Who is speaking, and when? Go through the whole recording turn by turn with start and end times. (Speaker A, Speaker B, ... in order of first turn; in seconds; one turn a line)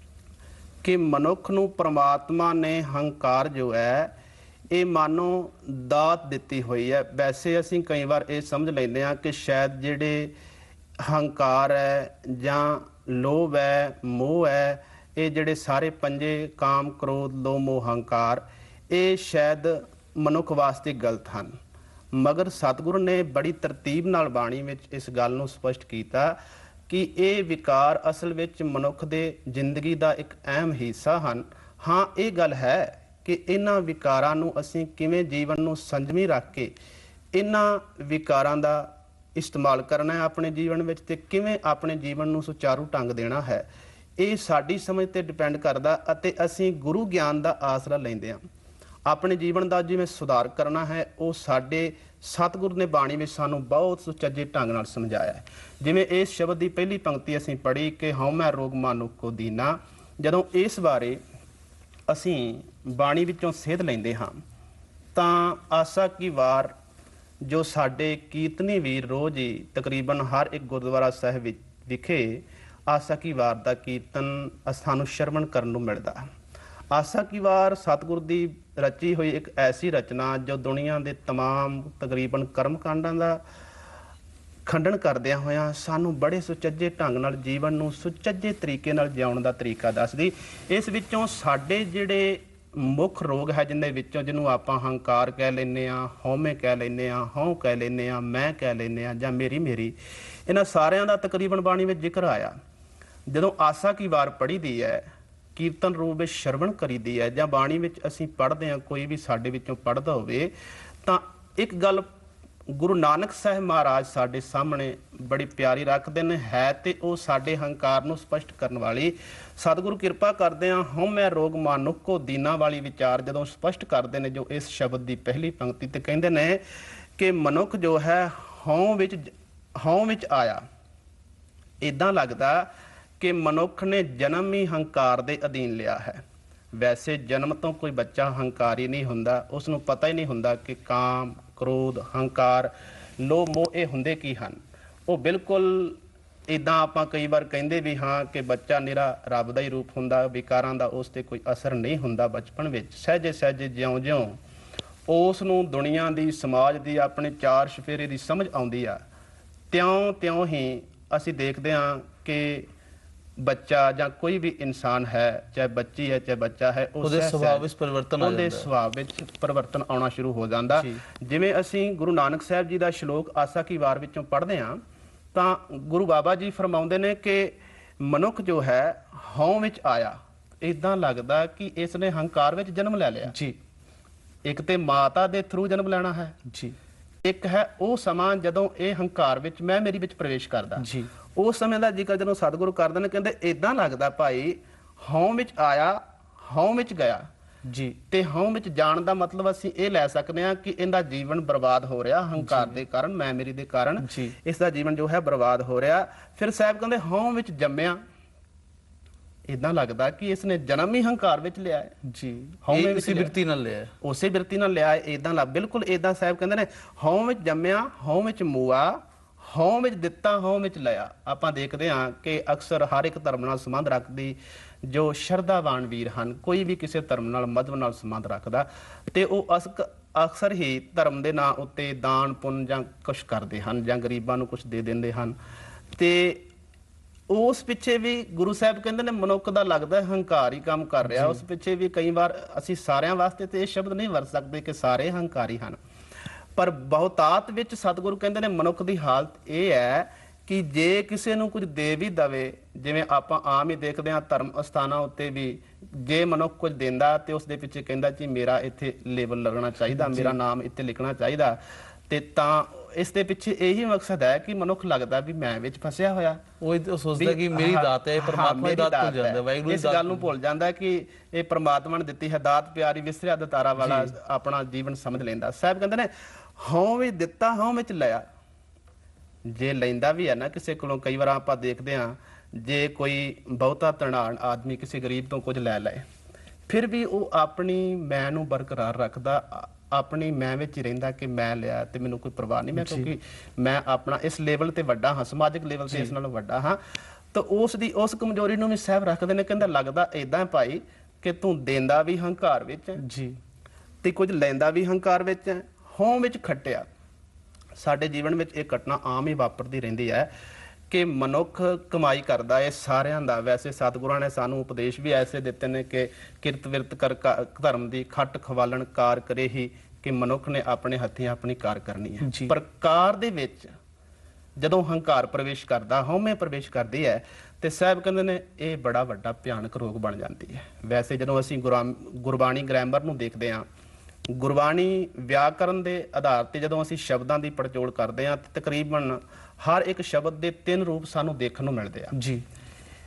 Speaker A: 0.8-4.1
Speaker A: 4.7-10.3
Speaker A: 11.0-21.5
Speaker A: 22.1-26.4
Speaker A: 26.9-36.7
Speaker A: 37.3-43.6
Speaker A: 44.2-48.4
Speaker A: 49.0-61.2
Speaker A: 62.1-64.4
Speaker A: 65.1-66.7
Speaker A: 67.4-76.3
Speaker A: 76.9-83.4
Speaker A: 84.7-99.9
Speaker A: 100.5-102.5
Speaker A: 103.3-105.0
Speaker A: 105.5-110.5
Speaker A: 111.0-112.1
Speaker A: 112.7-126.6
Speaker A: 127.2-130.6
Speaker A: 131.8-132.7
Speaker A: 133.2-136.2
Speaker A: 136.8-146.0
Speaker A: 146.5-154.4
Speaker A: 155.1-159.0
Speaker A: 159.7-162.7
Speaker A: 163.4-167.7
Speaker B: 167.0-168.7
Speaker A: 168.2-174.8
Speaker A: 175.3-183.3
Speaker B: 183.3-183.6
Speaker A: 184.4-186.3
Speaker B: 186.5-186.7
Speaker A: 187.2-197.2
Speaker B: 190.8-191.1
Speaker B: 197.7-198.0
Speaker A: 198.1-208.0
Speaker B: 202.4-202.8
Speaker B: 204.0-204.3
Speaker A: 209.5-211.9
Speaker B: 212.1-213.9
Speaker A: 212.6-213.3
Speaker A: 214.0-235.4
Speaker A: 236.0-236.4
Speaker A: 237.3-245.8
Speaker B: 241.1-241.4
Speaker A: 246.6-261.6
Speaker B: 259.9-260.3
Speaker A: 262.1-266.4
Speaker B: 266.6-270.3
Speaker A: 267.2-278.2
Speaker B: 273.8-274.1
Speaker A: 279.5-286.0
Speaker A: 286.7-296.8
Speaker B: 292.8-293.1
Speaker B: 295.9-296.1
Speaker A: 297.3-303.0
Speaker B: 303.0-303.4
Speaker A: 304.0-306.9
Speaker A: 307.8-310.3
Speaker A: 310.9-323.7
Speaker B: 322.2-322.5
Speaker A: 324.6-333.6
Speaker A: 334.3-342.1
Speaker B: 342.1-342.4